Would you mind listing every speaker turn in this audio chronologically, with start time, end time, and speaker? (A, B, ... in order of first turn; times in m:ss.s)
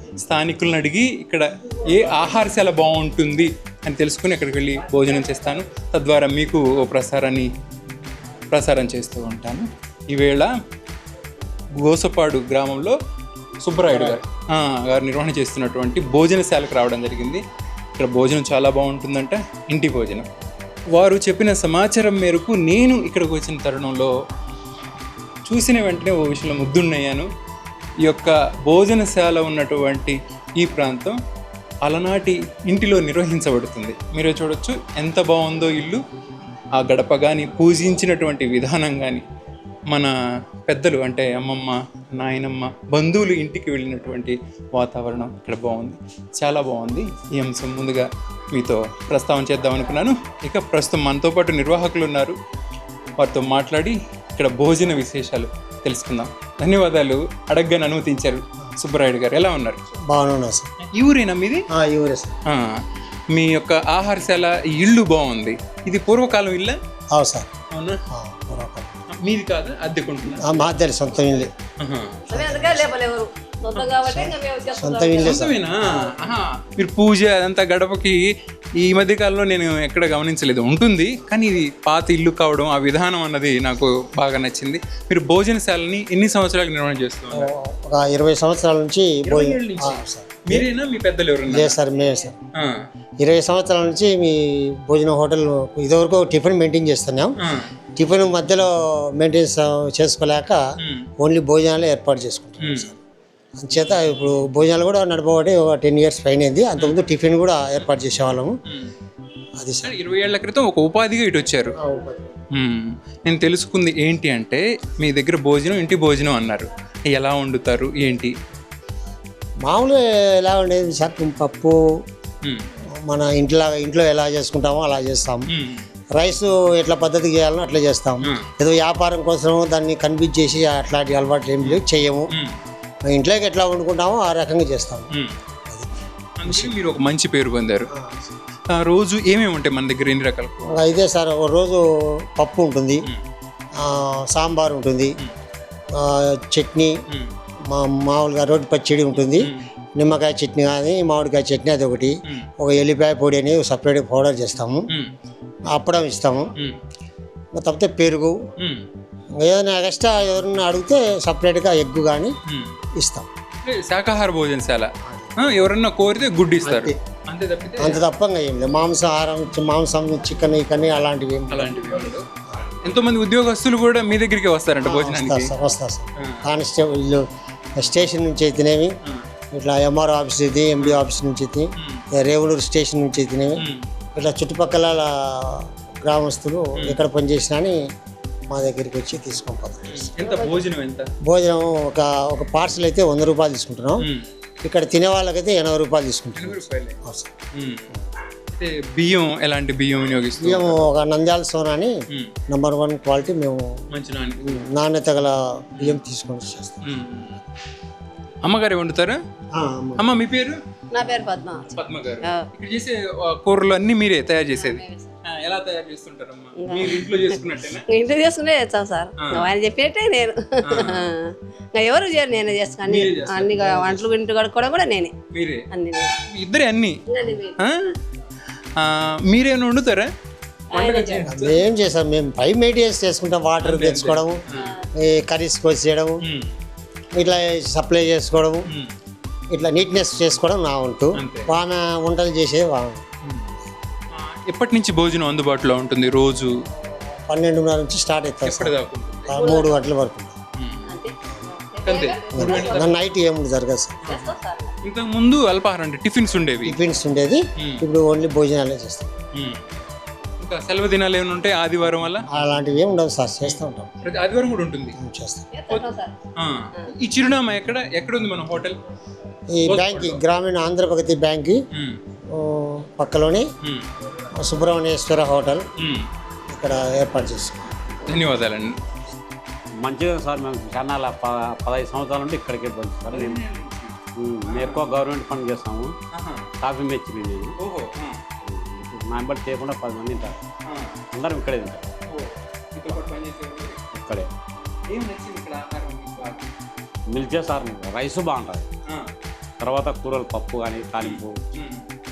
0:00.2-0:07.5 A
0:08.5-0:10.5 A
0:11.8-0:13.0 A
0:13.6-0:17.4 A
0:13.8-0:14.2 B
0:18.0-0:20.2 A
0:20.9-0:24.1 A
0:25.4-0:27.3 A
0:28.0-0:31.1 A
0:31.8-0:36.0 A
0:36.7-0:39.2 A
0:40.7-0:52.4 A
0:53.2-0:59.8 A
1:00.1-1:00.7 B
1:00.9-1:01.6 A
1:01.7-1:02.3 B
1:02.4-1:06.8 A
1:07.1-1:07.5 B
1:07.7-1:08.0 A
1:08.1-1:09.0 B
1:09.1-1:10.6 A
1:10.4-1:11.5 B
1:11.8-1:12.2 A
1:12.3-1:12.9 B
1:12.3-1:15.4 C
1:14.0-1:16.1 B
1:15.2-1:27.5 A
1:27.3-1:30.7 B
1:29.2-1:31.8 A
1:31.5-1:32.4 B
1:32.5-1:32.8 A
1:33.2-1:37.4 B
1:38.0-1:40.6 B
1:40.8-1:41.1 A
1:41.2-1:43.0 B
1:42.6-1:42.9 A
1:43.6-1:48.5 B
1:48.7-1:48.9 A
1:49.6-1:49.9 B
1:49.8-1:51.7 A
1:51.8-1:52.3 B
1:52.5-1:58.3 A
1:59.6-2:01.8 B
2:03.0-2:05.5 B
2:05.5-2:05.8 A
2:06.2-2:12.3 B
2:11.6-2:12.5 A
2:13.1-2:15.1 B
2:16.4-2:17.9 A
2:16.4-2:16.7 B
2:17.9-2:18.3 B
2:18.7-2:20.8 A
2:20.7-2:23.0 B
2:23.8-2:25.1 B
2:25.9-2:26.9 B
2:27.7-2:34.8 B
2:29.2-2:29.6 A
2:35.7-2:36.5 B
2:37.6-2:38.4 B
2:38.6-2:38.8 A
2:39.4-2:42.3 B
2:42.5-2:42.7 A
2:43.0-2:43.3 B
2:43.6-2:48.0 A
2:45.0-2:45.5 B
2:46.6-2:47.0 B
2:47.8-2:52.7 B
2:51.5-2:52.2 A
2:52.8-2:55.5 A
2:54.8-2:57.2 B
2:56.2-2:56.4 A
2:57.8-2:58.9 B
2:59.5-3:03.6 B
3:00.8-3:01.1 A
3:01.8-3:02.0 A
3:03.6-3:03.8 A
3:04.1-3:07.8 B
3:06.8-3:07.0 A
3:08.5-3:10.5 B
3:09.9-3:11.1 A
3:11.2-3:14.0 B
3:14.6-3:17.3 B
3:16.4-3:17.0 A
3:17.5-3:17.9 A
3:18.5-3:20.8 A
3:20.4-3:21.9 B
3:22.5-3:23.6 B
3:23.9-3:24.7 A
3:24.4-3:26.8 B
3:26.8-3:27.4 A
3:28.4-3:29.2 A
3:29.5-3:30.0 B
3:30.0-3:30.6 A
3:30.9-3:31.7 C
3:31.7-3:37.8 A
3:34.5-3:35.1 C
3:36.6-3:37.0 C
3:37.9-3:45.1 C
3:39.2-3:39.5 A
3:40.6-3:41.0 A
3:42.9-3:44.0 A
3:45.3-3:45.7 A
3:45.7-3:46.1 C
3:46.2-3:47.0 A
3:47.1-3:47.6 C
3:47.6-3:48.0 A
3:48.8-3:50.1 A
3:50.7-3:51.6 A
3:50.7-3:51.3 C
3:51.3-3:54.4 B
3:53.6-3:54.7 A
3:54.5-3:54.8 C
3:55.0-3:56.2 B
3:56.2-3:56.5 A
3:57.2-3:58.6 B
3:59.5-4:03.0 B
4:01.2-4:01.5 A
4:03.2-4:03.5 A
4:04.2-4:06.5 A
4:06.7-4:08.8 B
4:08.4-4:09.4 A
4:09.3-4:10.3 B
4:09.3-4:09.8 C
4:10.6-4:10.9 A
4:10.8-4:13.0 C
4:11.8-4:12.8 A
4:12.4-4:14.0 B
4:14.0-4:14.3 A
4:14.0-4:14.7 C
4:14.8-4:16.8 A
4:16.6-4:19.1 B
4:19.3-4:19.6 A
4:20.4-4:22.2 A
4:22.3-4:23.9 B
4:23.4-4:25.0 A
4:25.0-4:25.5 B
4:25.5-4:26.1 C
4:25.7-4:28.8 A
4:29.6-4:31.6 B
4:29.6-4:30.2 A
4:32.3-4:33.5 B
4:34.4-4:35.6 B
4:35.8-4:36.1 A
4:36.5-4:37.6 B
4:38.0-4:38.8 A
4:39.8-4:43.4 D
4:43.1-4:43.9 A
4:44.2-4:45.9 D
4:44.4-4:44.8 A
4:46.1-4:46.5 A
4:46.6-4:47.5 D
4:47.6-4:48.2 A
4:48.4-4:50.4 D
4:50.7-4:50.9 A
4:51.1-4:51.8 D
4:52.1-4:53.8 A
4:53.9-4:54.3 D
4:54.9-4:56.5 A
4:57.1-4:58.6 D
4:59.6-5:01.4 D
5:01.0-5:01.8 A